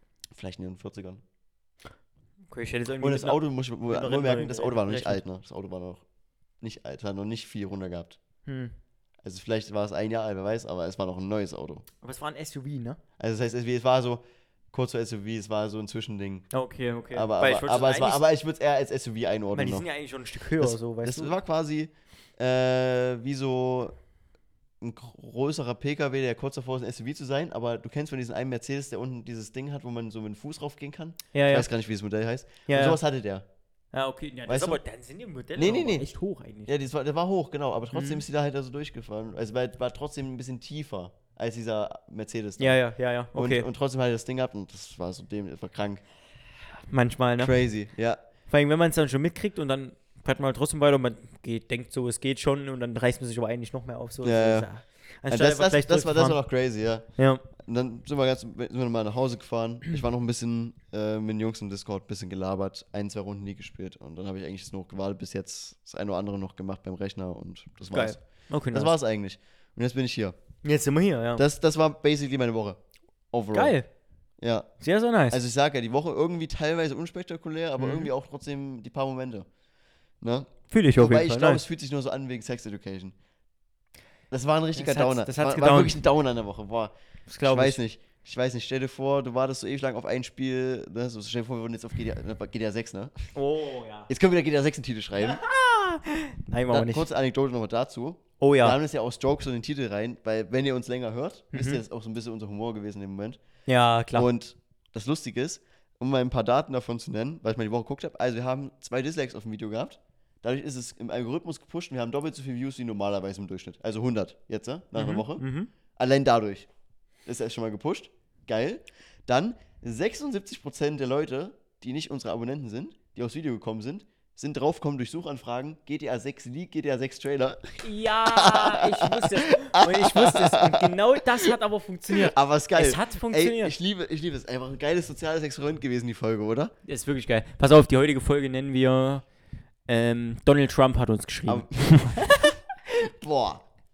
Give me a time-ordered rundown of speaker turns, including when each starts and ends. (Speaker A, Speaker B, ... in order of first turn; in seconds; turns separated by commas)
Speaker A: 0.4-1.2, Speaker B: 2.5-5.2, Speaker A: 3.0-6.0, Speaker A: 6.6-8.2, Speaker B: 8.4-8.7, Speaker A: 9.2-11.8, Speaker B: 12.0-13.0, Speaker A: 13.2-14.2, Speaker A: 14.7-16.5, Speaker B: 16.5-18.2, Speaker A: 17.1-19.9, Speaker B: 19.5-21.3, Speaker A: 20.6-23.9, Speaker A: 24.8-33.4, Speaker B: 31.3-31.7, Speaker B: 32.7-33.0, Speaker B: 33.9-36.7, Speaker A: 34.5-34.8, Speaker A: 35.6-36.0, Speaker A: 36.7-42.8, Speaker B: 37.9-38.2, Speaker B: 42.6-43.7, Speaker A: 43.3-46.0, Speaker B: 46.9-47.5, Speaker A: 47.4-48.2, Speaker B: 48.5-56.4, Speaker A: 54.2-54.7, Speaker A: 55.3-57.0, Speaker B: 57.2-57.4, Speaker A: 57.6-68.2, Speaker B: 67.9-69.0, Speaker A: 68.7-70.4, Speaker B: 70.6-71.4, Speaker A: 71.4-72.8, Speaker A: 73.3-73.8, Speaker B: 73.5-73.9, Speaker A: 74.4-74.7, Speaker B: 74.8-75.4, Speaker A: 75.3-79.5, Speaker B: 77.8-78.1, Speaker A: 80.2-83.1, Speaker B: 80.7-81.6, Speaker A: 84.3-93.3, Speaker B: 84.7-86.0, Speaker B: 87.3-87.8, Speaker B: 93.3-94.1, Speaker A: 94.1-95.4, Speaker B: 95.2-97.1, Speaker A: 96.7-103.4, Speaker B: 98.4-98.8, Speaker B: 101.5-101.8, Speaker B: 103.7-104.3, Speaker A: 104.1-115.4, Speaker B: 115.0-115.7, Speaker A: 116.0-116.7, Speaker A: 117.3-131.5, Speaker B: 127.8-133.7, Speaker A: 132.1-136.7, Speaker B: 136.8-139.2, Speaker B: 139.9-142.6, Speaker A: 141.5-143.6